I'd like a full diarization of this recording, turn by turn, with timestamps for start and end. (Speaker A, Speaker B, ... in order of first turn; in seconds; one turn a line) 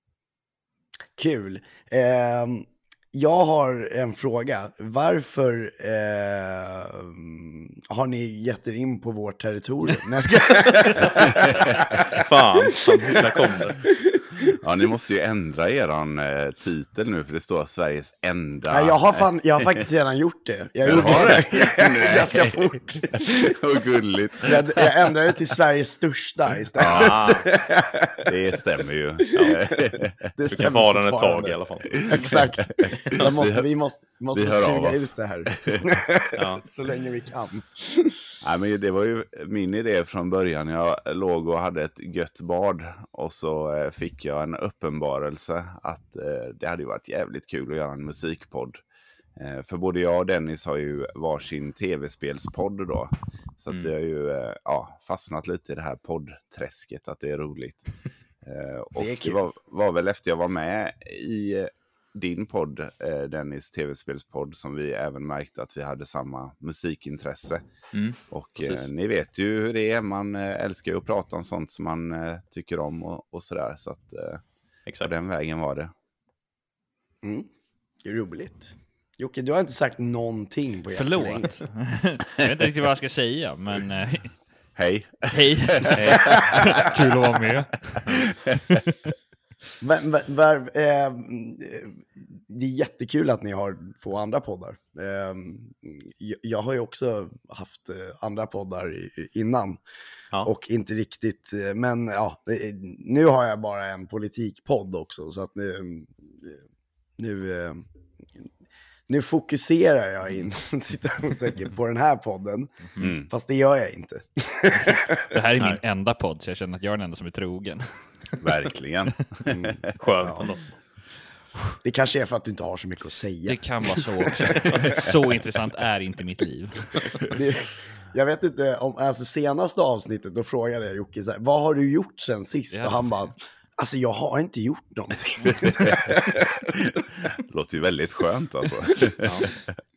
Speaker A: 1.1-12.2
Speaker B: 11.2-11.6
Speaker C: 12.2-13.8
Speaker A: 13.2-13.5
Speaker A: 14.1-14.4
Speaker B: 14.6-19.2
Speaker A: 18.7-23.6
Speaker B: 20.9-24.9
Speaker C: 20.9-21.4
Speaker A: 24.4-28.3
Speaker B: 26.8-27.3
Speaker C: 26.9-27.4
Speaker B: 28.2-30.3
Speaker A: 29.4-38.2
Speaker C: 30.5-32.0
Speaker B: 32.0-33.7
Speaker B: 34.3-35.8
Speaker C: 36.4-36.6
Speaker B: 38.4-48.8
Speaker B: 49.4-57.9
Speaker B: 58.4-67.6
Speaker A: 59.0-59.4
Speaker C: 67.9-68.9
Speaker B: 68.3-74.4
Speaker C: 74.9-75.1
Speaker B: 75.0-75.9
Speaker A: 77.2-77.5
Speaker A: 78.0-81.6
Speaker D: 80.9-84.4
Speaker B: 84.8-86.3
Speaker D: 85.3-88.1
Speaker A: 86.6-86.9
Speaker A: 89.8-99.8
Speaker A: 100.4-106.6
Speaker A: 107.2-107.8
Speaker A: 109.1-115.3
Speaker B: 113.0-113.3
Speaker D: 114.7-118.3
Speaker B: 118.4-119.7
Speaker A: 119.5-120.5
Speaker C: 120.0-120.7
Speaker A: 121.8-123.8
Speaker D: 123.5-127.3
Speaker A: 124.4-125.0
Speaker A: 127.3-136.7
Speaker D: 132.7-133.3
Speaker B: 135.8-136.1
Speaker B: 137.3-139.7
Speaker C: 139.2-139.5